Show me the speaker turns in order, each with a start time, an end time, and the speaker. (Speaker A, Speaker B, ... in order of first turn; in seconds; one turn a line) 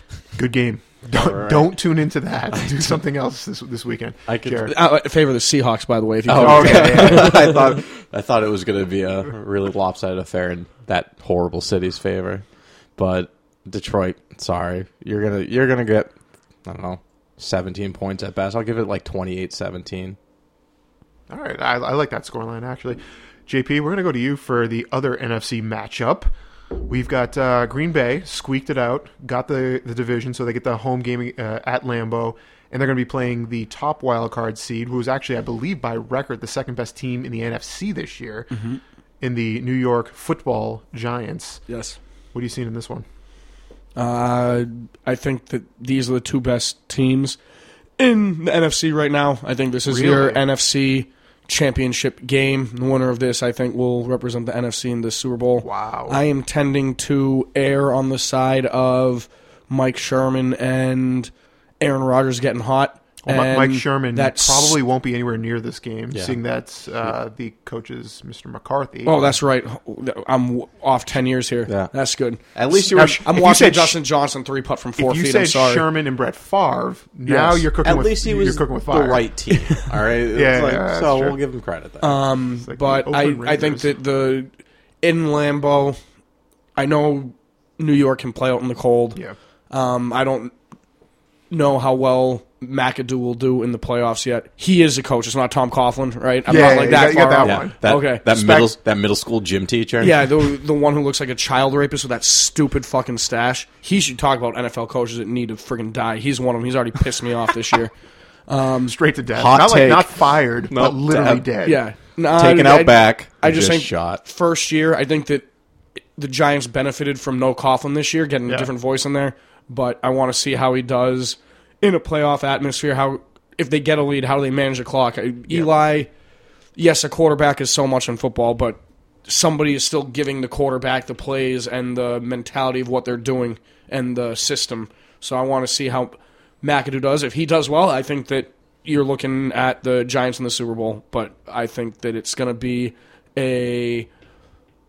Speaker A: 0.3-4.7
Speaker B: 1.1-1.7
Speaker B: 2.5-3.0
Speaker B: 4.3-4.7
Speaker C: 4.7-7.7
Speaker B: 6.3-12.4
Speaker A: 6.4-7.6
Speaker B: 13.0-16.1
Speaker B: 16.6-20.2
Speaker A: 21.3-26.3
Speaker A: 26.9-38.5
Speaker C: 38.5-38.8
Speaker A: 39.2-41.6
Speaker C: 41.7-42.0
Speaker A: 42.3-43.0
Speaker C: 44.0-47.4
Speaker C: 48.0-64.8
Speaker A: 49.9-50.4
Speaker A: 55.6-56.2
Speaker A: 63.2-69.4
Speaker B: 66.1-66.4
Speaker C: 69.0-75.8
Speaker B: 71.7-71.9
Speaker B: 72.5-73.2
Speaker A: 72.9-74.0
Speaker A: 75.0-79.3
Speaker C: 77.2-77.6
Speaker B: 77.8-82.2
Speaker A: 80.3-81.4
Speaker C: 82.0-84.5
Speaker A: 82.6-83.9
Speaker C: 85.0-86.0
Speaker C: 86.8-90.5
Speaker C: 91.5-98.2
Speaker A: 96.5-98.7
Speaker B: 96.9-100.4
Speaker C: 100.0-107.9
Speaker C: 108.5-108.9
Speaker A: 108.8-111.8
Speaker B: 109.3-111.4
Speaker C: 111.6-115.5
Speaker B: 112.3-114.2
Speaker C: 116.1-126.1
Speaker C: 126.8-144.1